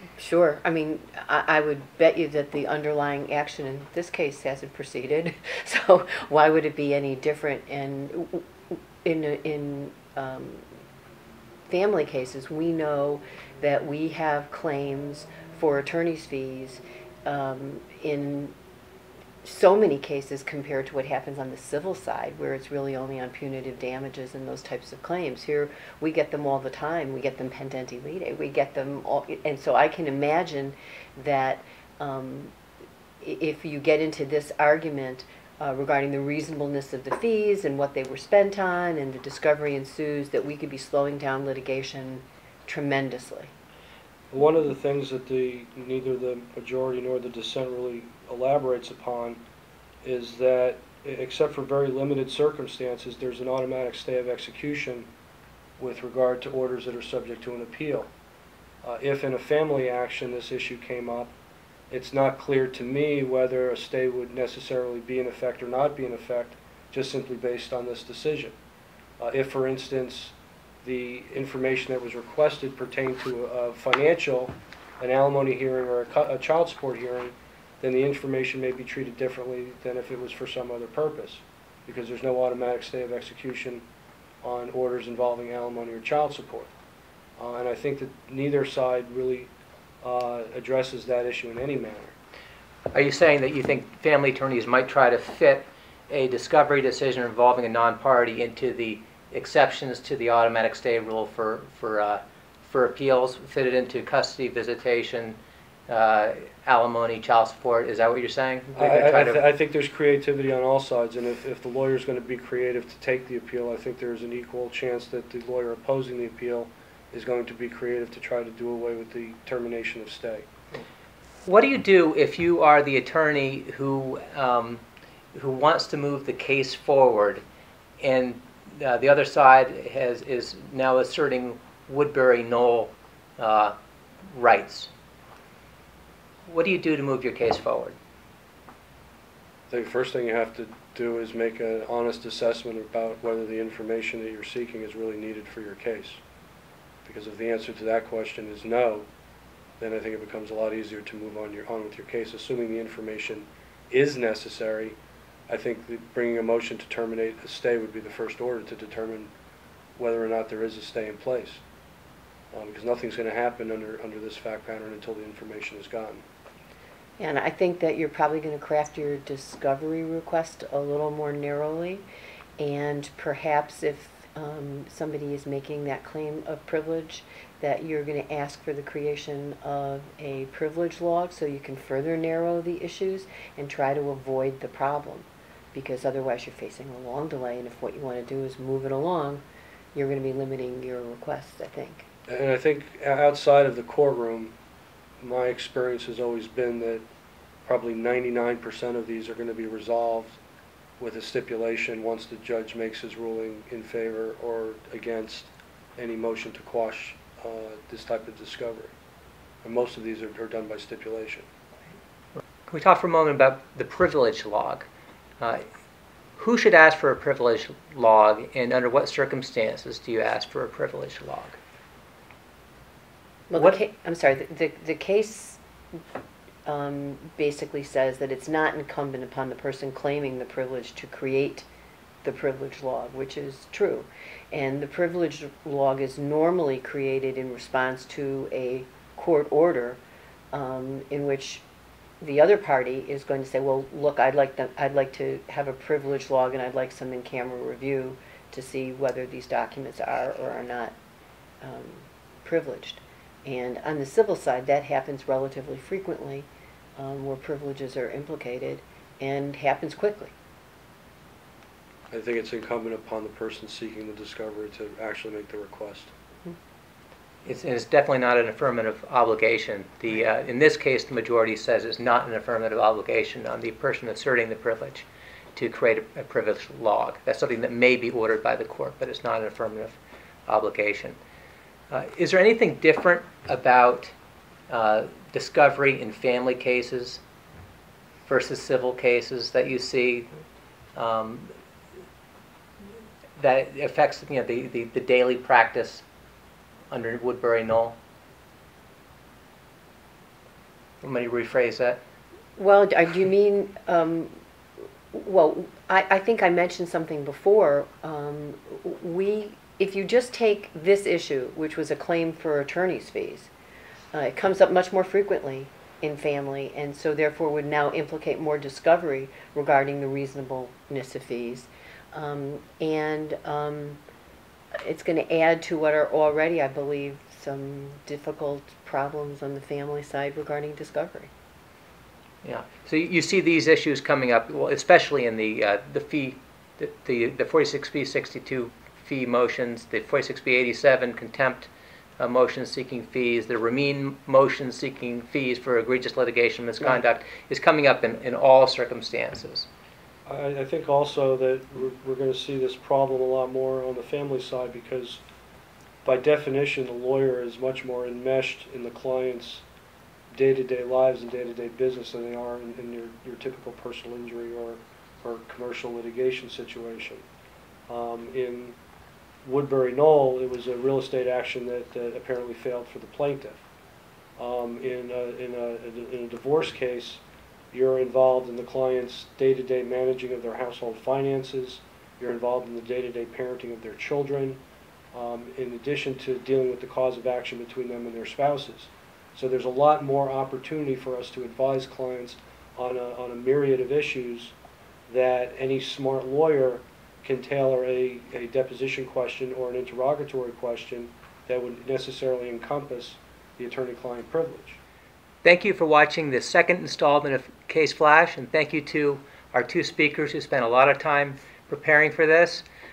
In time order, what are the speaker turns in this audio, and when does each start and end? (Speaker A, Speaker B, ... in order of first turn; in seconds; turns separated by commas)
Speaker A: 0.2-10.6, Speaker A: 11.7-18.5, Speaker A: 19.4-32.5, Speaker A: 33.2-43.5, Speaker B: 44.3-49.4, Speaker B: 50.0-55.1, Speaker B: 55.8-58.1, Speaker B: 58.8-61.3, Speaker B: 61.9-68.5, Speaker B: 69.2-83.8, Speaker B: 84.4-86.7, Speaker B: 87.4-89.5, Speaker B: 90.0-92.1, Speaker C: 92.9-109.4, Speaker B: 108.8-120.5, Speaker C: 121.5-124.8, Speaker C: 125.3-127.4, Speaker C: 128.0-133.7, Speaker C: 134.3-134.9, Speaker C: 136.5-137.9, Speaker B: 139.7-146.2, Speaker B: 147.0-149.1, Speaker B: 149.8-155.0, Speaker B: 155.5-159.3, Speaker B: 159.9-161.6, Speaker B: 162.5-166.2, Speaker A: 167.2-172.0, Speaker A: 172.6-189.4, Speaker A: 189.9-192.1, Speaker B: 192.3-194.5, Speaker B: 195.2-197.0, Speaker B: 197.7-200.4, Speaker B: 201.0-208.9, Speaker B: 209.6-211.5, Speaker C: 212.7-214.9, Speaker C: 216.4-221.6, Speaker A: 223.5-225.6, Speaker A: 226.7-231.7, Speaker A: 232.2-240.0, Speaker A: 240.5-241.6, Speaker A: 242.2-250.9, Speaker A: 251.6-260.3, Speaker B: 262.1-266.1, Speaker C: 267.4-281.2, Speaker C: 281.9-284.1, Speaker C: 284.7-287.2, Speaker C: 288.2-290.3, Speaker C: 290.9-291.5, Speaker C: 293.4-296.0, Speaker C: 296.9-298.0, Speaker C: 301.0-302.0, Speaker A: 302.6-304.3, Speaker A: 305.1-313.5, Speaker A: 314.1-324.0, Speaker A: 324.8-331.3, Speaker C: 332.4-349.7, Speaker B: 350.2-355.2, Speaker B: 356.0-359.6, Speaker B: 360.3-367.2, Speaker B: 367.9-368.8, Speaker B: 369.4-373.6, Speaker B: 374.4-384.6, Speaker B: 385.1-394.5, Speaker B: 395.1-404.8, Speaker C: 405.4-412.6